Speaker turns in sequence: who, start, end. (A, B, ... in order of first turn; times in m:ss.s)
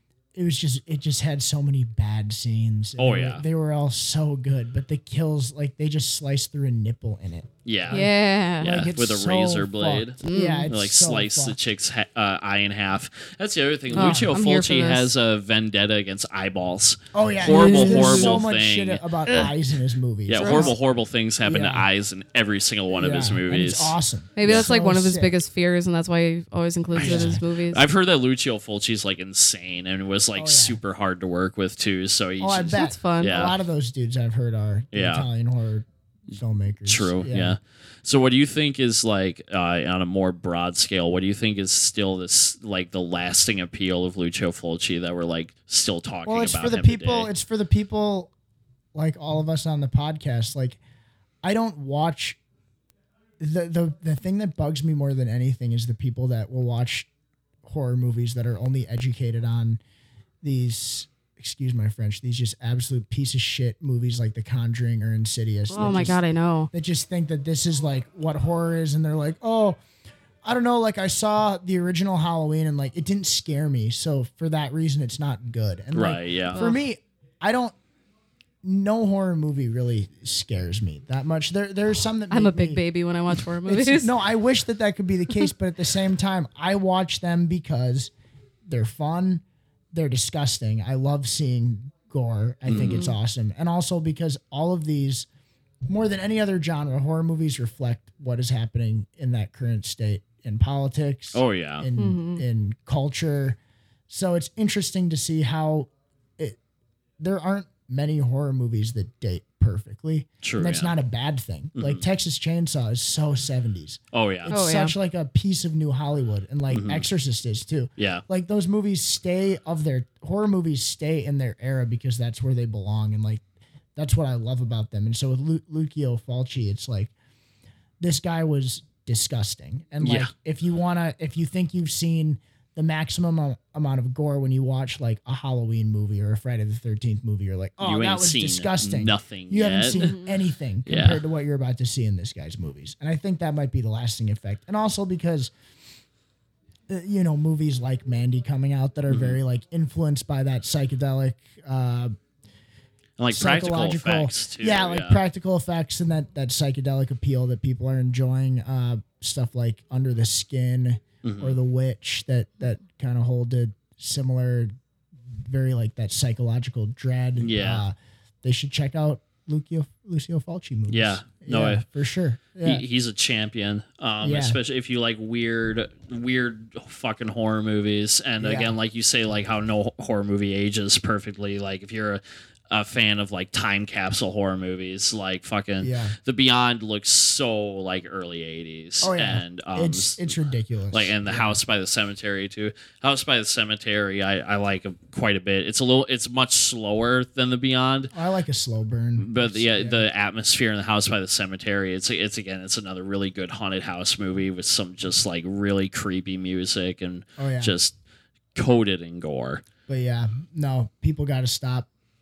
0:00.3-0:08.1 A
0:03.0-0:03.4 B
0:07.6-0:19.5 B
0:07.9-0:08.7 C
0:08.6-0:11.6 A
0:10.2-0:10.7 C
0:13.9-0:14.3 A
0:13.9-0:15.1 C
0:17.1-0:20.7 A
0:17.4-0:18.4 C
0:20.3-0:24.7 B
0:20.4-0:20.7 C
0:21.4-0:21.9 A
0:22.9-0:25.3 A
0:24.4-0:27.8 C
0:26.9-0:27.4 A
0:26.9-0:33.6 B
0:30.3-0:30.8 A
0:32.4-0:37.6 A
0:32.7-0:33.3 C
0:34.9-0:35.2 B
0:36.8-0:47.3 B
0:46.2-0:48.3 A
0:48.9-0:50.8 A
0:51.4-0:52.4 A
0:53.4-0:57.1 A
0:57.6-0:59.8 A
1:00.4-1:06.2 A
1:05.7-1:06.7 C
1:06.7-1:09.8 A
1:10.4-1:17.7 A
1:15.9-1:16.6 B
1:16.5-1:16.8 C
1:18.6-1:22.8 A
1:22.3-1:24.1 C
1:23.6-1:28.1 A
1:28.6-1:35.3 A
1:32.7-1:33.0 B
1:32.7-1:33.1 C
1:35.8-1:43.6 A
1:41.3-1:41.9 B
1:42.0-1:42.4 C
1:44.1-1:46.6 A
1:47.2-2:03.4 A
1:50.4-1:50.9 B
1:51.8-1:52.0 B
1:54.1-1:54.5 B
1:54.5-1:54.9 C
1:56.7-1:57.0 B
1:58.0-1:58.2 B
2:04.0-2:07.1 A
2:08.0-2:25.5 A
2:10.0-2:10.3 B
2:17.8-2:20.1 B
2:19.9-2:20.3 C
2:20.8-2:21.2 B
2:26.9-2:32.1 A
2:29.1-2:29.4 B
2:33.2-2:35.2 B
2:33.3-2:44.7 A
2:41.2-2:41.6 B
2:45.3-2:52.8 A
2:47.4-2:47.8 B
2:50.9-2:51.8 B
2:52.6-3:10.3 B
2:54.2-2:54.6 A
2:58.4-2:58.7 A
3:05.8-3:06.2 A
3:09.0-3:11.6 A
3:10.9-3:18.1 B
3:18.1-3:20.0 A
3:19.2-3:27.9 B
3:27.4-3:27.7 A
3:28.5-3:29.6 B
3:29.9-3:31.9 A